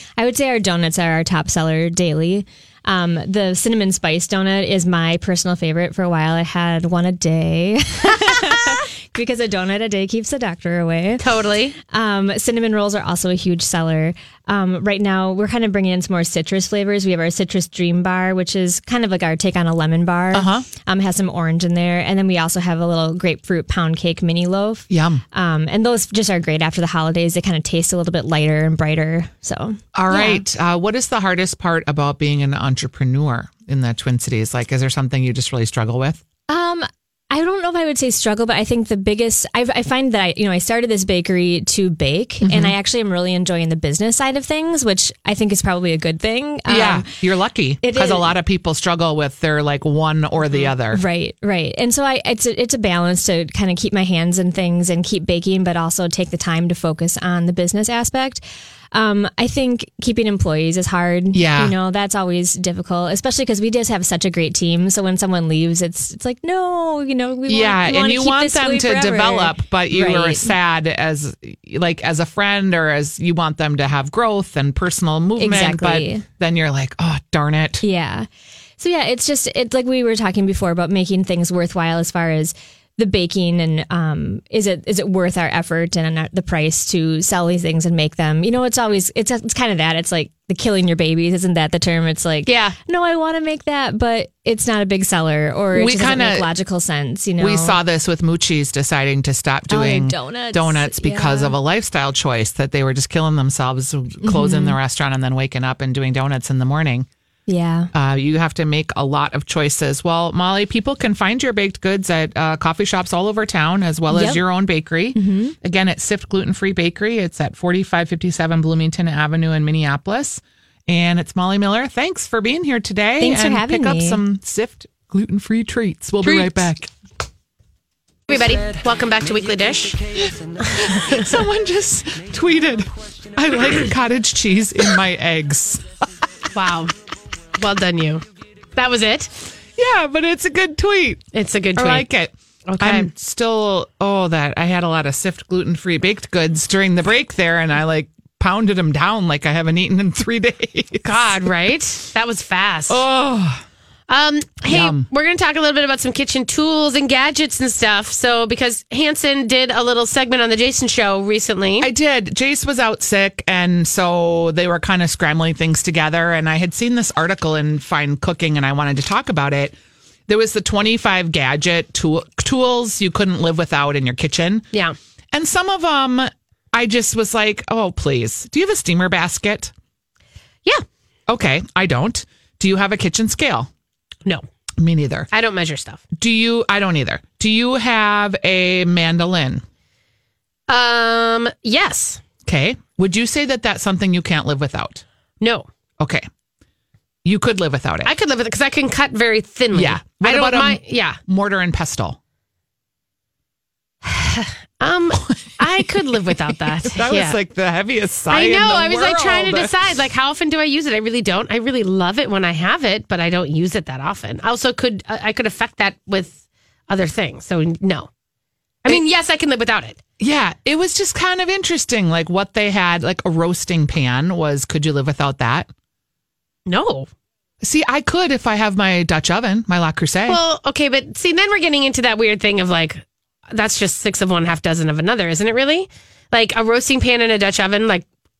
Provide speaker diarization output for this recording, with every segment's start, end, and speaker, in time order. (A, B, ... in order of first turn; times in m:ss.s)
0:00.2-0:11.3 A
0:11.2-0:11.8 B
0:11.8-0:30.4 A
0:20.3-0:20.7 C
0:24.9-0:25.2 C
0:29.9-0:36.2 C
0:36.5-0:47.1 A
0:42.4-0:42.8 C
0:46.7-0:51.0 C
0:47.8-0:48.3 A
0:50.9-0:58.4 A
0:58.9-1:10.5 A
1:01.3-1:01.8 C
1:07.5-1:17.8 C
1:15.4-1:16.2 A
1:17.8-1:18.3 A
1:18.8-1:37.8 A
1:32.5-1:32.8 B
1:35.7-1:36.5 C
1:37.4-1:47.1 C
1:39.7-1:41.6 A
1:44.2-1:44.8 A
1:47.5-1:47.9 A
1:47.9-2:06.9 C
1:54.1-1:54.4 A
1:55.2-1:55.6 A
2:03.2-2:04.2 A
2:06.2-2:06.6 B
2:08.3-2:10.0 B
2:10.7-2:11.4 B
2:10.8-2:15.9 C
2:16.5-2:16.9 B
2:17.6-2:18.2 B
2:18.8-2:19.3 B
2:19.8-2:21.2 C
2:21.3-2:22.1 B
2:21.8-2:31.4 C
2:22.7-2:23.1 B
2:31.0-2:33.0 B
2:32.9-2:33.6 C
2:34.1-2:41.9 B
2:34.7-2:35.1 C
2:41.8-2:49.8 C
2:50.3-2:54.7 C
2:55.3-2:59.7 C
3:01.3-3:03.7 C
3:04.8-3:05.3 C
3:05.3-3:06.0 B
3:06.2-3:09.6 C
3:10.7-3:12.2 B
3:12.5-3:15.0 C
3:15.4-3:15.7 B
3:16.0-3:16.3 C
3:17.2-3:18.1 C
3:18.0-3:21.2 B
3:19.7-3:22.2 C
3:24.0-3:27.4 B
3:25.3-3:29.8 C
3:28.3-3:38.1 B
3:38.8-3:40.0 B
3:40.2-3:45.7 C
3:46.7-3:47.1 B
3:47.6-3:50.4 C
3:50.3-3:58.0 B